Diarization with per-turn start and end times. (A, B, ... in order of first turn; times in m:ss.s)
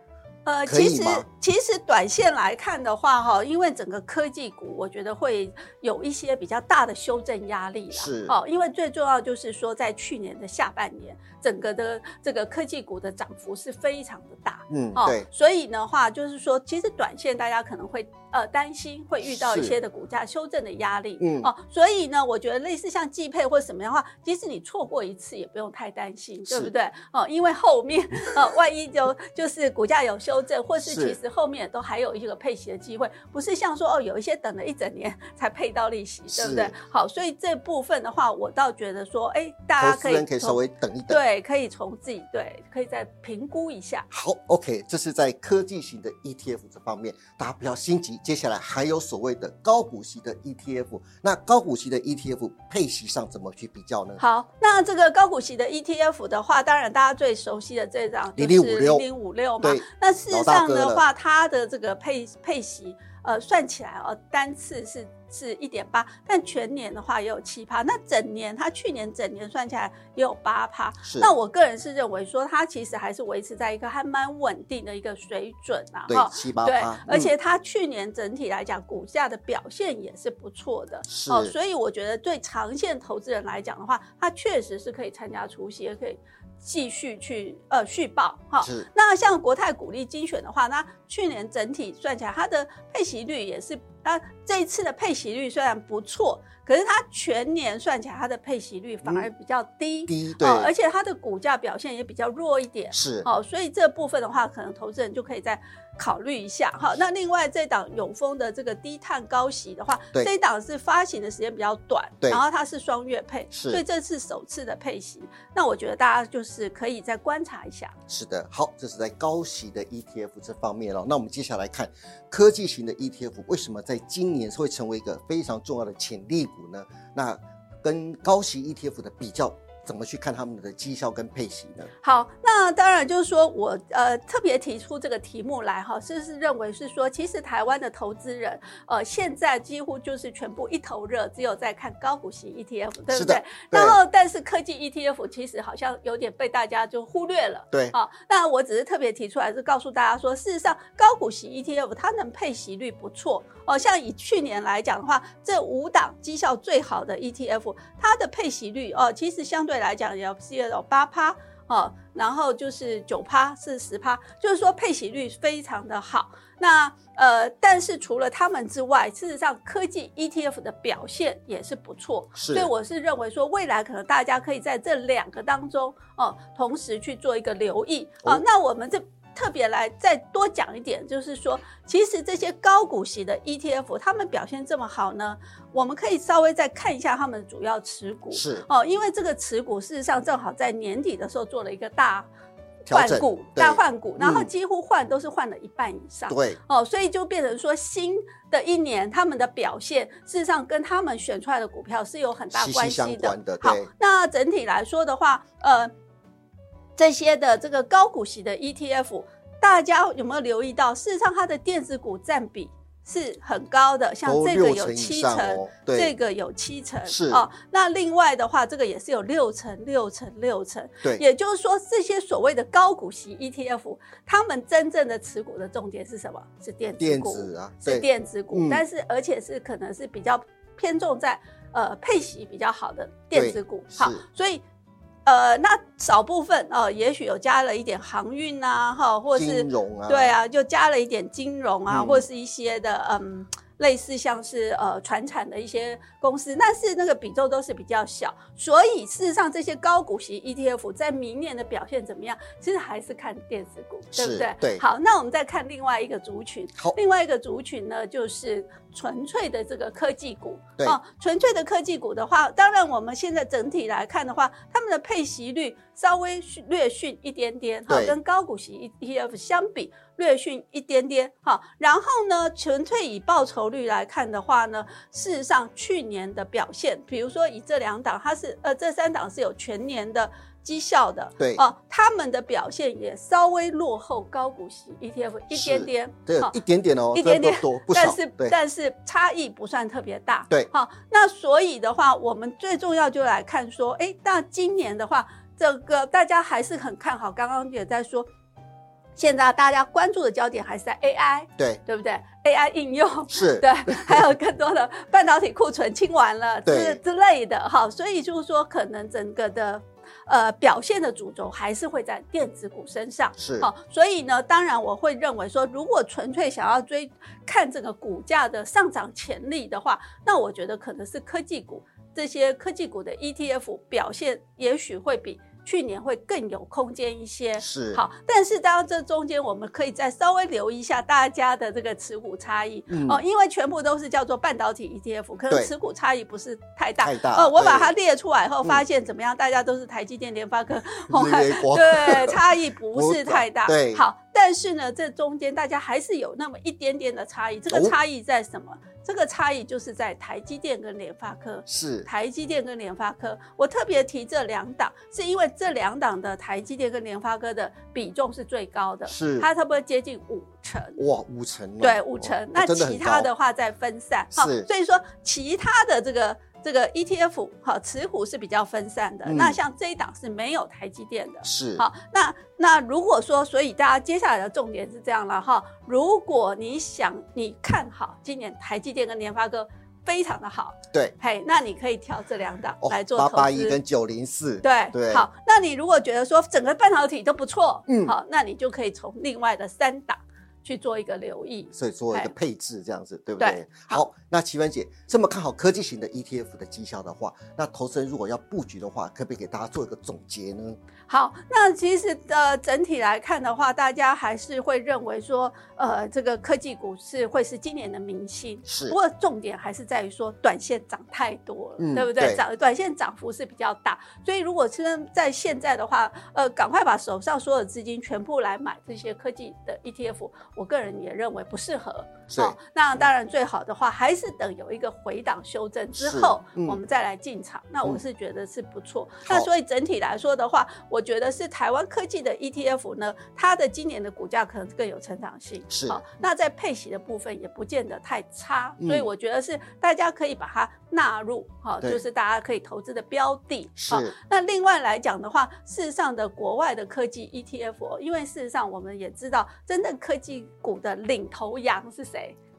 0:00.5-0:44.1 A
0:00.7-0:01.3 B
0:07.9-0:08.4 B
0:14.7-0:15.3 B
0:19.3-0:19.8 B
0:21.2-0:21.5 B
0:30.8-0:31.2 B
0:36.3-0:36.7 B
0:39.8-0:41.2 B
0:44.1-0:54.2 B
0:54.2-1:57.9 A
0:58.4-0:59.1 B
0:59.6-1:01.0 B
1:11.0-1:11.3 B
1:16.1-1:17.3 B
1:21.1-1:21.5 B
1:28.6-1:28.9 B
1:40.1-1:40.7 B
1:42.9-1:43.3 B
1:53.5-1:53.8 B
1:58.1-2:11.9 B
2:12.0-3:12.3 A
2:23.1-2:24.0 B
2:52.4-2:52.7 B
3:08.3-3:08.6 B
3:12.9-3:14.5 B
3:12.9-3:25.9 A
3:16.3-3:16.6 B
3:22.5-3:23.9 B
3:27.0-3:54.6 A
3:34.2-3:36.1 B
3:37.1-3:37.4 B
3:47.0-3:48.8 B
3:53.3-3:54.2 B
3:55.3-4:46.6 A
3:59.3-4:00.4 B
4:01.9-4:02.2 B
4:14.1-4:14.8 B
4:27.9-4:28.2 B
4:45.5-4:48.6 B
4:47.1-4:58.3 A
4:59.2-6:01.0 A
5:03.3-5:04.3 B
5:06.7-5:07.0 B
5:13.4-5:13.7 B
5:27.6-5:28.0 B
5:32.9-5:33.2 B
5:37.0-5:37.9 B
5:41.1-5:42.4 B
5:43.0-5:44.0 B
5:47.7-5:48.0 B
5:51.7-5:52.1 B
5:59.1-5:59.5 B
6:01.0-6:03.3 B
6:01.8-6:23.8 A
6:04.4-6:04.7 B
6:09.3-6:09.6 B
6:11.4-6:11.8 B
6:22.8-6:25.3 B
6:24.6-6:32.3 A
6:27.9-6:28.2 B
6:31.7-6:40.8 B
6:33.4-6:34.0 A
6:41.1-7:32.4 A
6:48.7-6:49.0 B
6:51.8-6:52.4 B
7:02.3-7:02.6 B
7:06.0-7:06.8 B
7:15.7-7:16.0 B
7:18.8-7:19.1 B
7:23.8-7:24.2 B